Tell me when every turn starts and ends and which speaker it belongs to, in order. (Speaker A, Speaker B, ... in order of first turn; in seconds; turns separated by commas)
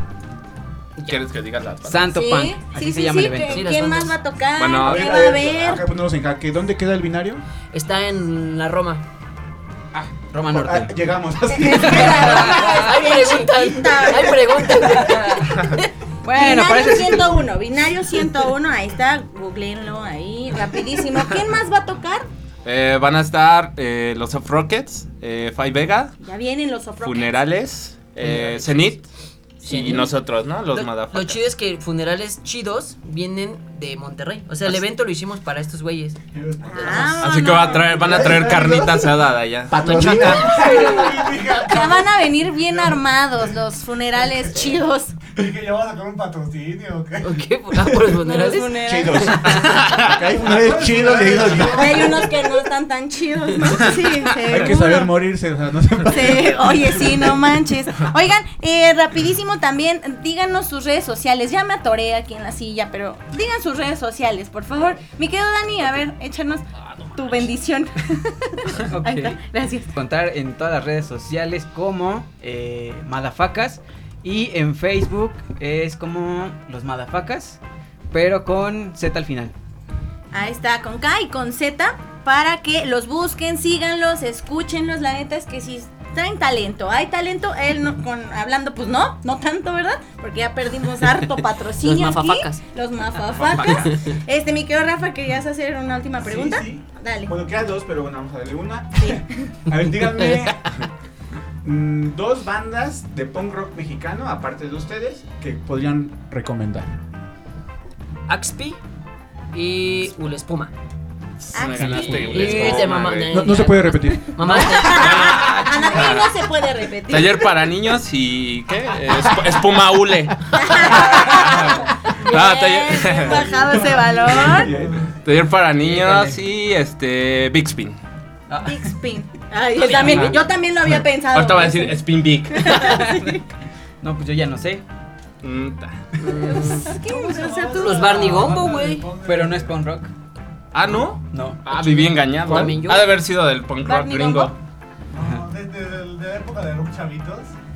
Speaker A: 1.1-2.1, Speaker B: 1.9-3.7, Speaker C: 2.1-5.8, Speaker D: 3.5-4.2, Speaker A: 4.6-5.3, Speaker E: 4.8-7.4, Speaker D: 7.7-9.0, Speaker B: 9.9-11.1, Speaker E: 10.4-12.7, Speaker C: 11.5-14.7, Speaker B: 11.7-12.9, Speaker D: 12.4-15.5, Speaker B: 14.8-15.6, Speaker C: 16.2-22.3, Speaker B: 16.3-17.5, Speaker A: 22.6-26.1, Speaker C: 26.2-27.6, Speaker A: 27.0-29.1, Speaker D: 29.6-30.1, Speaker A: 29.6-31.4, Speaker D: 30.7-36.2, Speaker F: 36.3-37.3, Speaker C: 36.7-38.5, Speaker A: 37.1-40.4, Speaker E: 37.9-39.1, Speaker F: 38.1-38.6, Speaker E: 39.7-41.0, Speaker C: 40.0-45.2, Speaker F: 40.4-43.0, Speaker F: 45.3-47.4, Speaker D: 47.2-50.0, Speaker C: 48.1-49.4, Speaker E: 48.8-52.3, Speaker A: 49.5-50.1, Speaker F: 50.4-52.4, Speaker C: 51.5-55.1, Speaker E: 54.4-57.0, Speaker C: 56.1-69.9, Speaker B: 68.8-77.6, Speaker B: 78.1-79.5, Speaker C: 80.3-97.3, Speaker D: 91.8-92.6, Speaker D: 93.5-94.1, Speaker E: 96.2-100.8, Speaker E: 101.6-107.0, Speaker D: 108.3-108.8, Speaker D: 109.5-110.7, Speaker A: 111.4-113.3, Speaker C: 111.5-112.9, Speaker E: 111.8-112.3, Speaker D: 111.9-115.4, Speaker E: 113.2-115.0, Speaker C: 114.4-117.7, Speaker A: 114.9-116.3, Speaker A: 117.1-123.6, Speaker C: 120.5-124.7, Speaker F: 123.6-125.1, Speaker E: 123.7-125.0, Speaker A: 125.2-128.0, Speaker B: 125.8-126.4, Speaker B: 128.5-128.9, Speaker C: 128.6-133.4, Speaker D: 129.8-130.4, Speaker A: 130.1-133.0, Speaker B: 132.7-133.4, Speaker B: 134.0-134.8, Speaker A: 135.4-136.2, Speaker D: 136.2-137.1, Speaker C: 136.4-138.4, Speaker F: 136.9-139.8, Speaker D: 137.7-139.1, Speaker B: 139.2-140.1, Speaker A: 140.7-144.6, Speaker B: 141.3-141.6, Speaker D: 141.7-143.2, Speaker E: 142.4-142.8, Speaker C: 143.8-144.5, Speaker F: 145.1-147.5